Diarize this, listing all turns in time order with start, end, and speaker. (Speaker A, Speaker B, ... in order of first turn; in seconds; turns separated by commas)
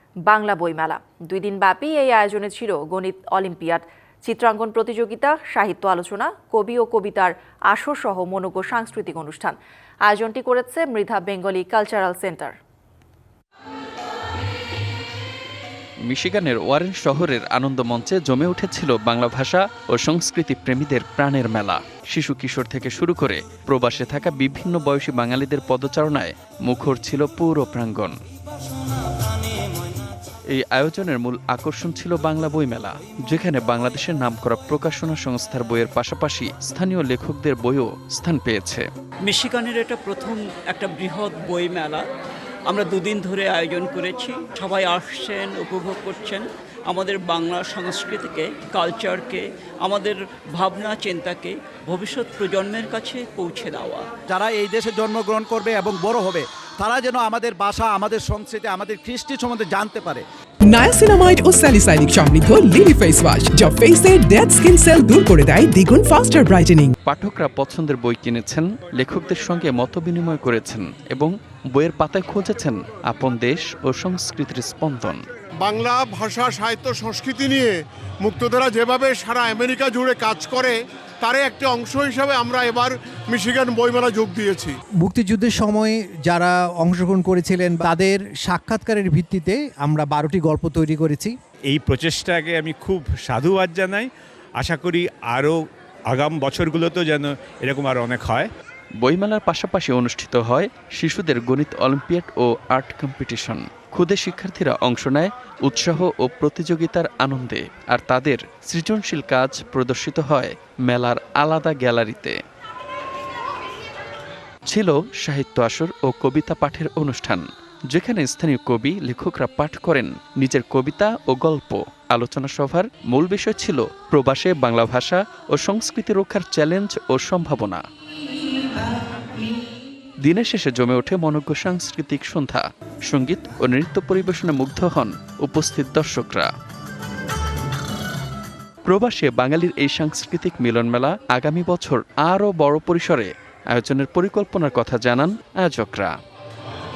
Speaker A: 0.3-12.6, Speaker B: 16.1-28.1, Speaker B: 30.5-38.9, Speaker C: 39.2-42.1, Speaker C: 42.7-54.1, Speaker D: 54.3-60.2, Speaker E: 60.7-67.0, Speaker B: 67.1-75.2, Speaker F: 75.6-84.8, Speaker G: 85.0-91.3, Speaker H: 91.7-94.1, Speaker H: 94.6-95.5, Speaker H: 96.1-98.5, Speaker B: 99.0-112.4, Speaker B: 114.7-127.8, Speaker B: 130.2-136.5, Speaker B: 138.9-146.1